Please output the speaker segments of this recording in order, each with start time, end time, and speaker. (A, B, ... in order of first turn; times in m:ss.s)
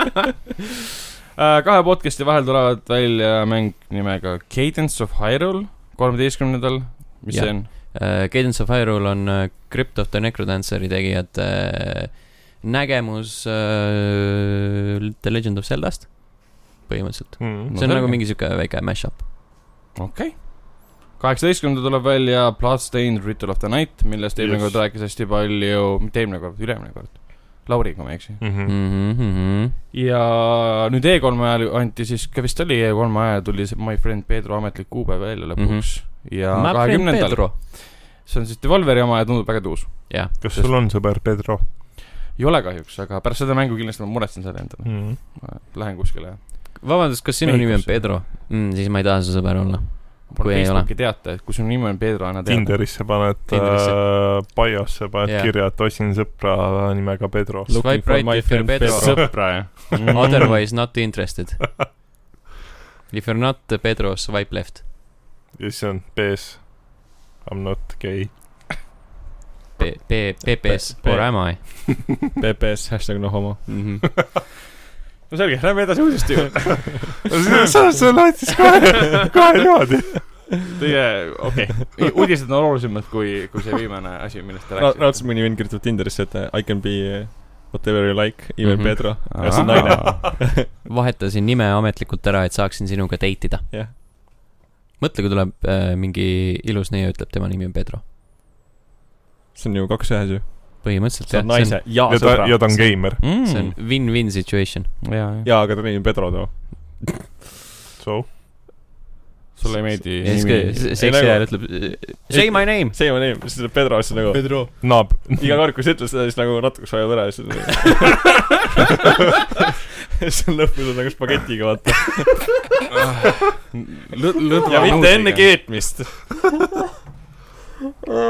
0:01.4-0:07.7 A
0:07.3-0:14.4 B
0:15.2-0:19.2 B
0:17.4-0:17.7 C
0:17.7-0:18.2 A
0:19.9-0:28.4 A
0:24.4-0:24.8 C
0:28.4-0:28.7 C
0:28.6-0:29.8 B
0:29.9-0:40.7 A
0:35.6-0:37.5 B
0:40.1-0:40.3 B
0:40.3-0:41.7 C
0:42.3-0:46.8 A
0:44.8-0:45.2 C
0:46.8-0:50.9 B
0:47.4-0:47.9 A
0:50.3-0:52.8 A
0:52.4-0:57.7 C
0:53.5-0:54.0 B
0:55.2-0:55.5 B
0:57.7-0:59.3 D
0:57.7-1:01.8 B
0:58.8-1:00.6 A
1:03.1-1:04.8 B
1:05.5-1:08.6 C
1:09.8-1:11.6 B
1:10.6-1:11.8 D
1:12.4-1:13.8 D
1:13.7-1:14.0 B
1:15.3-1:17.3 A
1:17.3-1:20.6 C
1:20.7-1:25.2 A
1:24.8-1:30.7 D
1:28.6-1:29.6 B
1:29.3-1:30.4 A
1:29.6-1:30.1 C
1:30.7-1:34.0 B
1:35.0-1:38.0 B
1:39.5-1:43.0 D
1:40.8-1:42.0 B
1:42.1-1:43.2 C
1:43.2-1:43.8 A
1:43.3-1:44.9 B
1:45.0-1:45.5 A
1:45.4-1:47.0 D
1:48.0-1:48.3 C
1:49.6-1:50.9 A
1:50.2-1:52.9 B
1:51.0-1:58.3 D
1:54.8-1:55.7 C
2:00.2-2:02.6 D
2:03.4-2:05.6 A
2:04.7-2:06.4 D